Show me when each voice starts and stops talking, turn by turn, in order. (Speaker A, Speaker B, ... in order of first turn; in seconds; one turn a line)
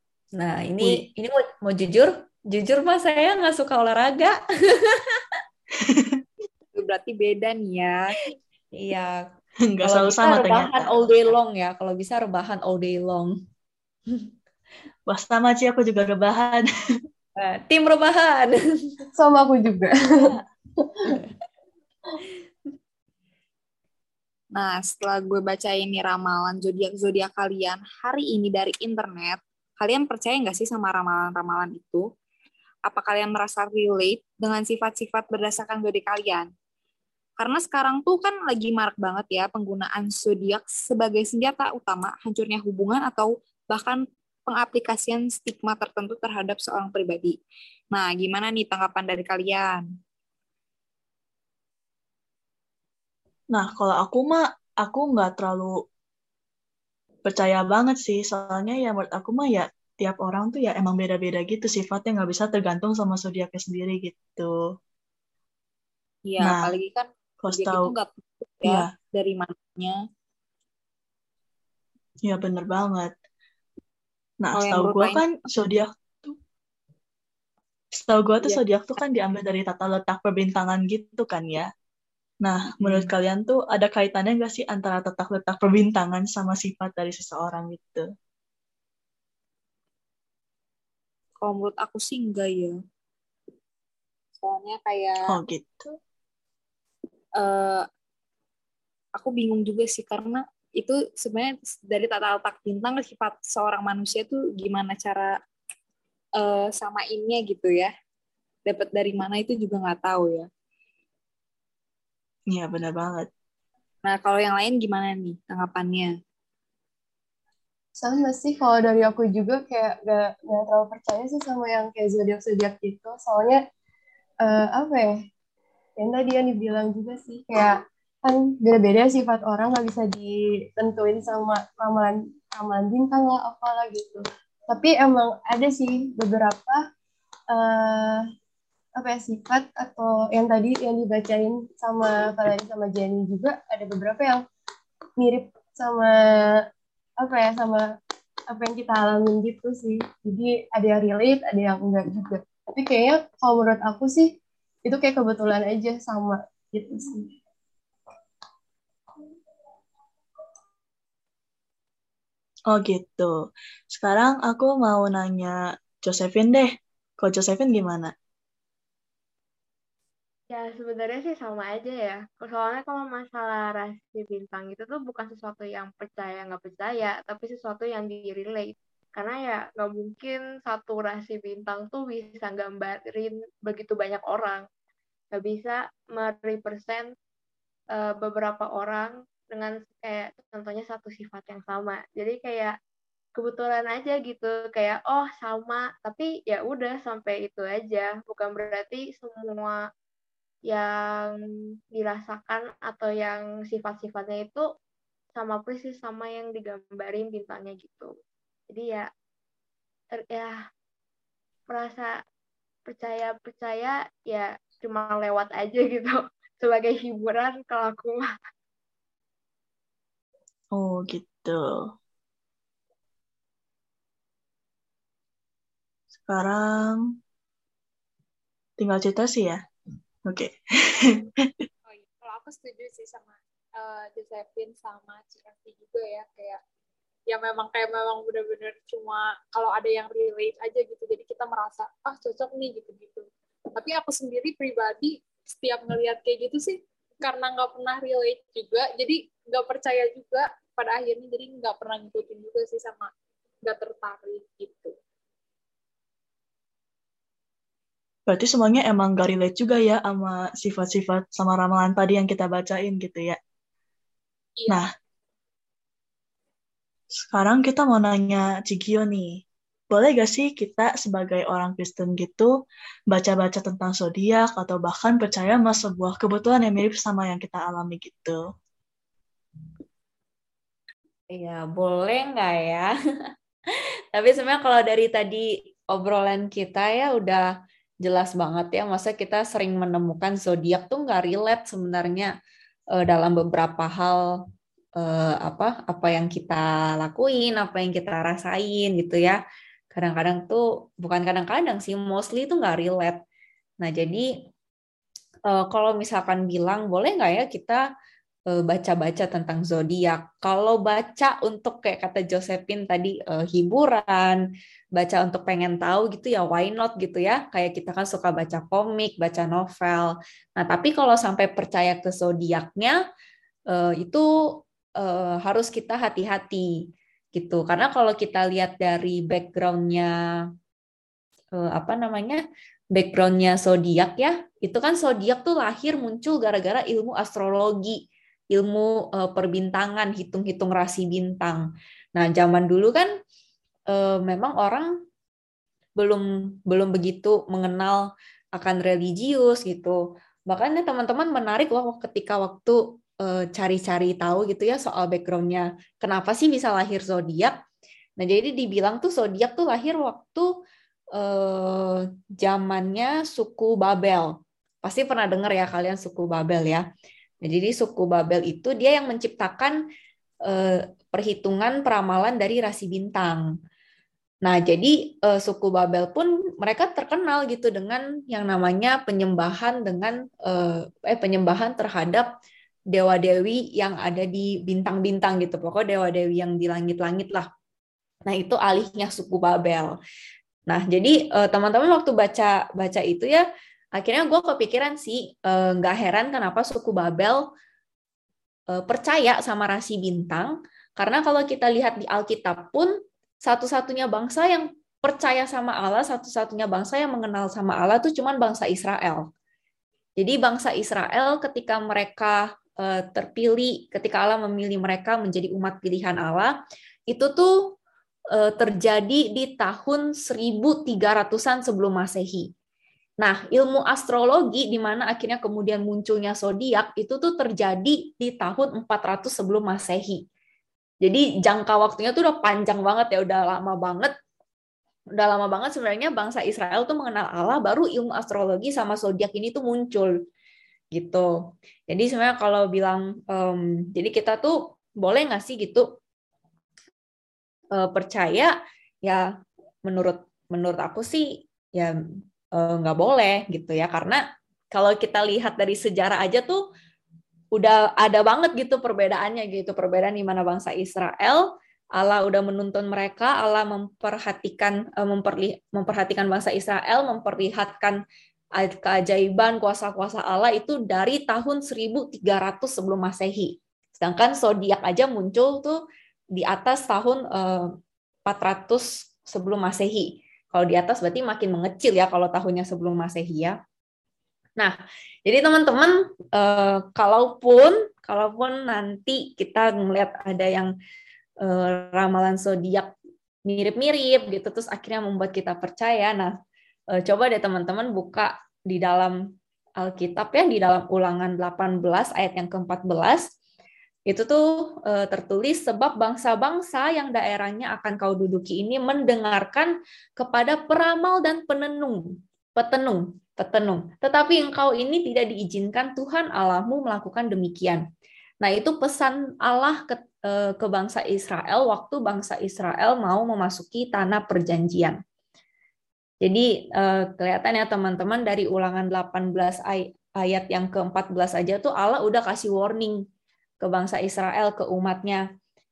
Speaker A: 0.3-5.2
Speaker B: 0.8-1.1
Speaker B: 5.8-6.2
Speaker C: 6.7-8.2
Speaker A: 8.7-9.2
Speaker B: 9.7-10.9
Speaker A: 9.8-13.3
Speaker B: 15.1-16.7
Speaker A: 17.4-19.0
Speaker D: 19.2-21.2
Speaker A: 21.1-21.3
Speaker C: 24.5-32.0
Speaker C: 32.9-36.5
Speaker C: 37.4-47.4
Speaker C: 47.9-49.9
Speaker B: 53.5-55.8
Speaker B: 57.2-64.7
Speaker C: 66.2-70.0
Speaker B: 66.4-66.7
Speaker B: 67.4-67.9
Speaker B: 68.6-68.9
Speaker B: 72.2-73.1
Speaker B: 74.4-76.4
Speaker C: 74.5-75.2
Speaker B: 77.9-81.7
Speaker B: 82.4-88.1
Speaker C: 82.8-83.1
Speaker C: 91.4-92.8
Speaker C: 94.3-95.2
Speaker B: 95.2-95.8
Speaker C: 97.4-97.8
Speaker C: 99.2-105.3
Speaker C: 106.4-107.9
Speaker C: 108.7-110.5
Speaker B: 112.5-113.3
Speaker C: 114.0-116.1
Speaker D: 118.0-123.6
Speaker D: 124.4-125.2
Speaker D: 126.0-136.8
Speaker D: 137.5-138.2
Speaker D: 138.9-144.4
Speaker D: 145.2-146.6
Speaker D: 147.2-147.9
Speaker D: 148.5-157.3
Speaker B: 162.7-163.3
Speaker B: 163.9-168.1
Speaker E: 170.5-184.6
Speaker E: 185.3-187.1
Speaker E: 187.9-192.7
Speaker E: 193.3-199.8
Speaker E: 200.7-201.4
Speaker E: 201.9-204.7
Speaker E: 205.3-208.1
Speaker E: 208.7-209.1
Speaker E: 210.2-210.6
Speaker E: 211.7-212.1
Speaker E: 212.9-218.3
Speaker B: 220.7-221.9
Speaker B: 226.2-227.1
Speaker B: 228.8-229.6
Speaker B: 230.2-231.6
Speaker F: 231.8-236.6
Speaker F: 237.3-253.1
Speaker F: 253.6-254.9
Speaker B: 258.3-263.4
Speaker F: 264.6-264.8
Speaker B: 267.1-272.5
Speaker B: 273.1-278.4
Speaker A: 281.3-282.9
Speaker A: 283.7-287.4
Speaker A: 288.0-292.3
Speaker A: 292.9-294.2
Speaker A: 294.9-299.4
Speaker A: 299.9-303.2
Speaker A: 303.8-304.2
Speaker A: 305.5-307.8
Speaker A: 308.5-314.4
Speaker A: 314.9-323.0
Speaker A: 323.7-324.2
Speaker A: 325.0-326.7
Speaker A: 327.3-330.1
Speaker A: 331.5-332.4
Speaker A: 332.9-338.0
Speaker A: 338.5-343.1
Speaker A: 343.9-344.9
Speaker A: 346.0-348.0
Speaker A: 348.5-357.5
Speaker A: 358.2-360.5
Speaker A: 361.1-364.3
Speaker A: 364.8-366.8
Speaker A: 367.4-369.8
Speaker A: 370.4-373.4
Speaker A: 374.4-382.3
Speaker A: 382.9-387.4
Speaker A: 388.2-389.9
Speaker A: 390.7-393.4
Speaker A: 393.9-397.4
Speaker A: 398.7-409.2
Speaker A: 410.2-416.5
Speaker A: 417.1-417.7
Speaker A: 418.3-422.5
Speaker A: 423.2-430.2
Speaker A: 431.0-434.1
Speaker A: 435.1-440.1
Speaker A: 440.9-441.3
Speaker A: 441.9-445.9
Speaker A: 447.7-449.2
Speaker A: 449.8-451.9
Speaker A: 452.5-456.6
Speaker A: 457.5-468.0
Speaker A: 468.6-475.8
Speaker A: 476.3-477.7
Speaker A: 478.2-483.6
Speaker A: 484.6-490.7
Speaker A: 491.4-492.9
Speaker A: 493.4-496.3
Speaker A: 496.9-499.3
Speaker A: 499.8-503.3
Speaker A: 504.1-517.8
Speaker A: 518.4-525.0
Speaker A: 526.2-533.0
Speaker A: 533.6-535.2